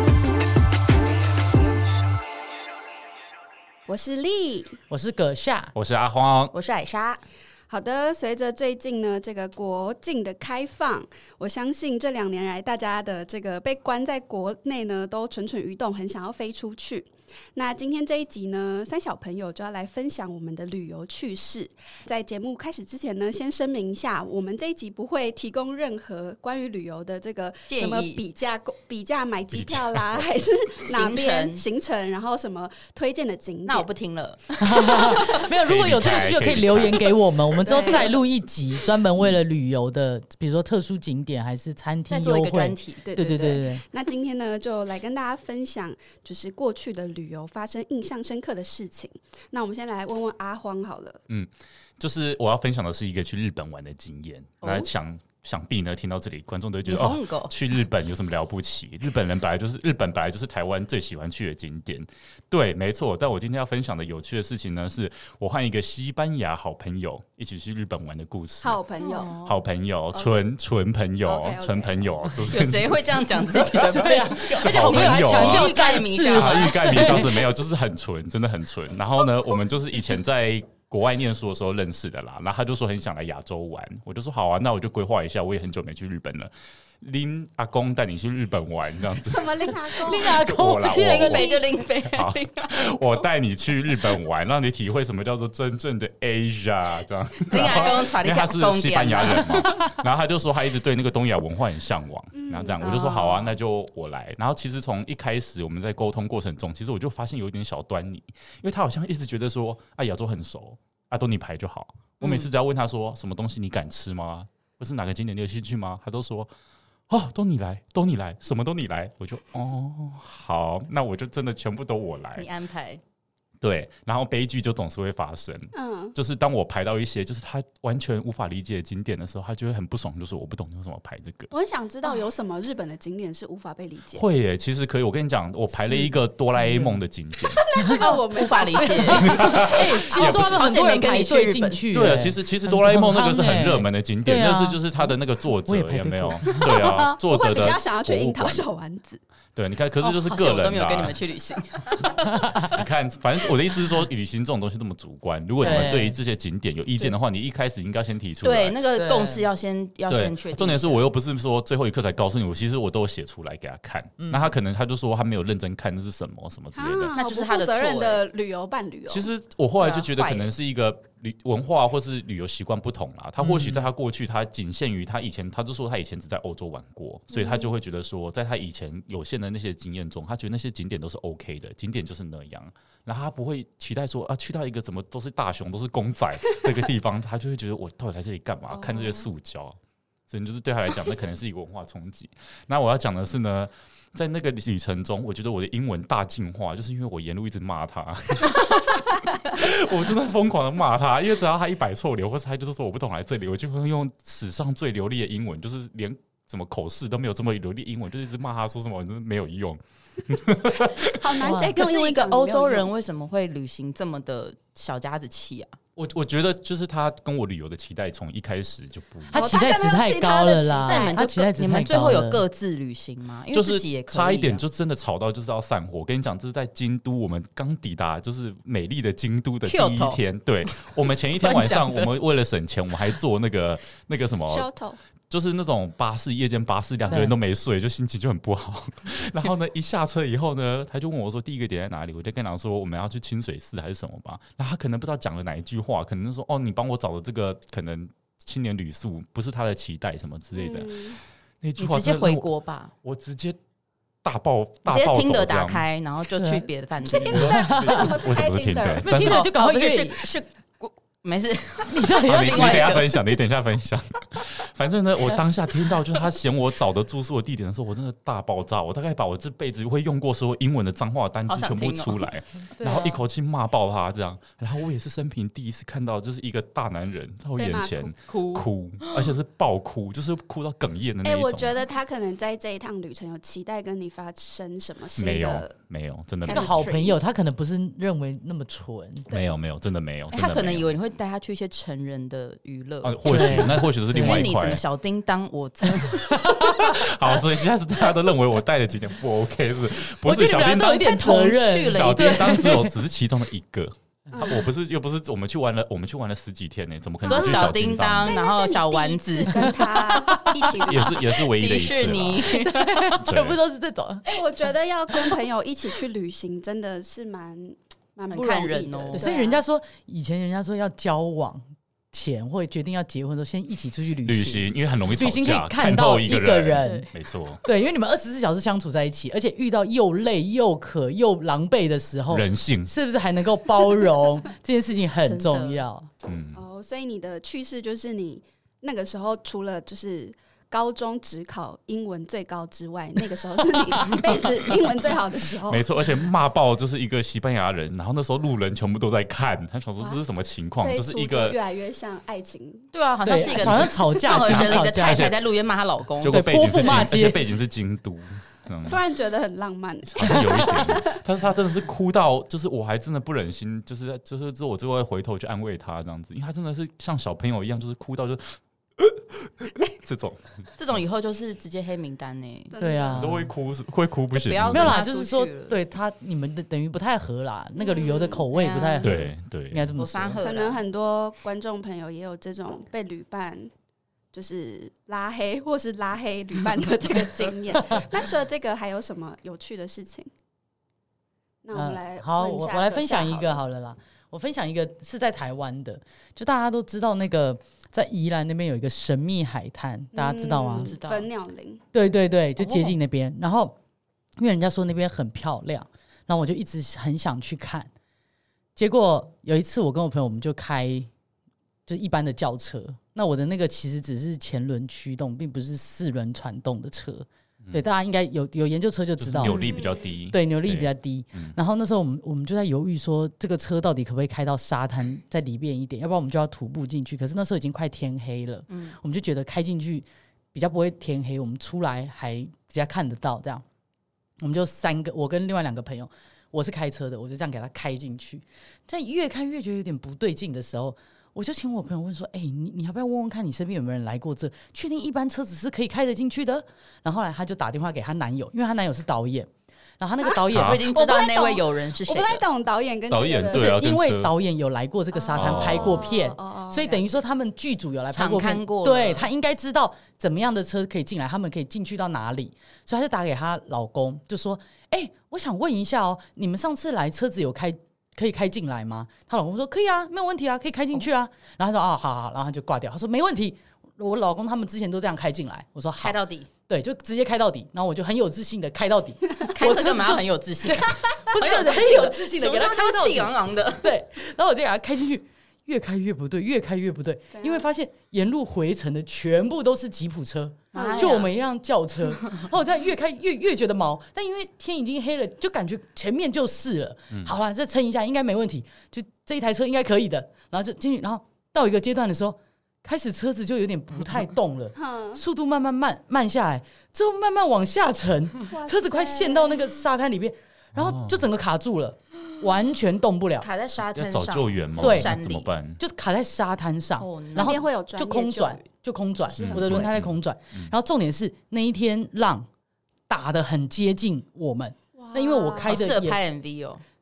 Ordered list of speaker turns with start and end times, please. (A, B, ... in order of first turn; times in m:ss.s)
0:03.9-0:04.8 A
0:04.9-0:05.7 B
0:05.7-0:06.5 C
0:06.5-0:07.2 D
0:07.7-0:33.9 A
0:27.7-0:28.2 D
0:29.5-0:30.2 C
0:30.9-0:31.6 D
0:33.6-0:35.1 D
0:34.6-0:43.8 B
0:35.2-0:37.2 C
0:37.6-0:38.1 A
0:42.1-0:43.0 D
0:43.0-0:51.2 A
0:51.3-1:08.8 C
0:54.6-0:54.9 D
0:56.8-0:57.5 D
1:08.6-1:09.4 A
1:09.0-1:09.6 D
1:09.4-1:26.5 C
1:10.1-1:10.4 A
1:11.2-1:12.3 A
1:12.4-1:17.4 D
1:13.7-1:17.4 B
1:27.0-1:56.5 C
1:29.2-1:30.4 A
1:30.0-1:31.5 B
1:30.9-1:33.0 D
1:37.5-1:39.8 D
1:37.6-1:38.0 A
1:42.3-1:43.5 A
1:57.1-2:02.5 C
2:02.4-2:03.0 D
2:03.6-2:11.5 C
2:05.7-2:06.1 A
2:11.5-2:14.2 A
2:14.1-2:17.6 C
2:16.6-2:17.0 B
2:17.4-2:20.2 A
2:17.8-2:18.0 B
2:17.9-2:21.8 D
2:18.8-2:25.1 B
2:19.2-2:20.6 C
2:21.9-2:28.7 C
2:25.6-2:26.6 B
2:26.4-2:27.1 D
2:26.7-2:29.2 A
2:29.5-2:31.2 C
2:30.0-2:32.6 D
2:32.3-2:32.7 B
2:32.6-2:38.8 C
2:35.6-2:36.2 B
2:35.6-2:36.0 D
2:38.4-2:41.0 D
2:39.0-2:39.5 B
2:40.1-2:47.1 C
2:44.2-2:44.5 B
2:46.7-2:49.3 A
2:47.1-2:48.2 D
2:49.1-3:09.8 C
2:49.8-2:50.5 D
2:53.4-2:53.8 B
2:57.3-2:57.7 A
3:08.7-3:09.3 A
3:10.3-3:31.4 C
3:31.0-3:32.9 A
3:31.4-3:31.7 B
3:31.7-3:35.8 D
3:36.0-3:39.6 C
3:39.3-3:42.4 B
3:39.3-3:41.2 A
3:40.8-3:44.6 D
3:43.5-3:54.6 C
3:49.6-3:52.1 D
3:54.5-3:55.0 A
3:55.3-4:12.5 C
4:10.5-4:11.2 A
4:11.8-4:12.9 D
4:13.0-4:13.6 C
4:14.2-4:15.8 C
4:14.8-4:17.7 D
4:16.4-4:16.7 B
4:17.0-4:19.2 A
4:17.2-4:19.4 C
4:17.2-4:18.1 B
4:19.0-4:23.2 D
4:19.0-4:20.2 B
4:21.9-4:23.0 B
4:22.3-4:41.7 C
4:31.5-4:32.2 D
4:32.8-4:33.2 B
4:37.6-4:38.6 A
4:41.2-4:45.7 A
4:45.2-4:46.8 C
4:46.4-4:47.2 A
4:46.5-4:49.3 B
4:49.3-4:50.9 C
4:50.3-4:56.3 D
4:53.0-4:54.8 C
4:53.2-4:54.5 B
4:56.0-4:57.0 B
4:56.4-5:01.2 C
5:00.2-5:02.9 B
5:00.8-5:02.7 D
5:01.8-5:08.4 C
5:04.3-5:04.6 A
5:07.2-5:11.3 A
5:07.2-5:13.2 D
5:09.6-5:10.7 B
5:10.8-5:12.5 C
5:12.4-5:14.4 B
5:13.2-5:13.6 C
5:14.3-5:19.6 A
5:18.3-5:19.3 D
5:19.1-5:27.1 B
5:24.2-5:27.6 C
5:26.7-5:27.0 D
5:27.6-5:36.1 B
5:32.3-5:32.9 C
5:35.2-5:35.8 D
5:36.2-5:36.6 C
5:36.5-5:45.8 A
5:45.6-5:51.6 C
5:50.8-5:54.0 A
5:52.9-5:56.4 D
5:53.2-5:55.3 B
5:54.4-5:55.4 C
5:56.2-5:59.0 C
5:56.3-5:57.4 B
5:58.8-6:01.2 A
6:00.0-6:10.6 C
6:00.3-6:00.8 B
6:10.8-6:12.7 D
6:12.7-6:13.3 A
6:12.8-6:13.5 B
6:13.1-6:15.0 C
6:14.3-6:15.8 D
6:14.7-6:20.1 B
6:17.8-6:18.4 A
6:18.5-6:19.2 D
6:19.0-6:20.4 C
6:20.0-6:20.8 D
6:20.4-6:23.7 A
6:24.3-6:30.3 A
6:31.6-6:33.6 A
6:31.7-6:40.9 B
6:40.1-6:41.8 A
6:40.8-6:41.3 D
6:41.9-6:43.8 B
6:42.6-6:42.9 D
6:44.4-6:47.9 B
6:48.8-6:51.1 B
6:51.9-6:59.7 B
6:59.2-7:01.6 C
6:59.5-7:00.0 A
7:00.3-7:13.6 B
7:08.7-7:09.0 D
7:14.4-7:29.5 B
7:30.0-7:30.8 B
7:30.2-7:33.7 A
7:30.5-7:30.8 C
7:30.6-7:32.4 D
7:33.1-7:34.3 C
7:33.5-8:33.5 B
7:35.1-7:37.1 A
7:35.3-7:36.0 C
7:38.1-7:39.3 D
7:56.0-7:56.5 D
7:59.4-8:03.9 D
8:07.3-8:07.7 A
8:10.7-8:11.2 A
8:10.7-8:11.3 D
8:24.8-8:25.2 A
8:28.5-8:29.7 A
8:30.7-8:31.2 C
8:33.4-8:35.5 D
8:33.9-8:35.8 C
8:34.8-8:35.1 B
8:35.8-8:42.5 B
8:37.0-8:37.6 D
8:37.4-8:38.6 A
8:39.3-8:40.7 C
8:39.3-8:39.8 A
8:43.1-8:46.2 B
8:45.0-8:45.8 A
8:45.6-8:46.8 D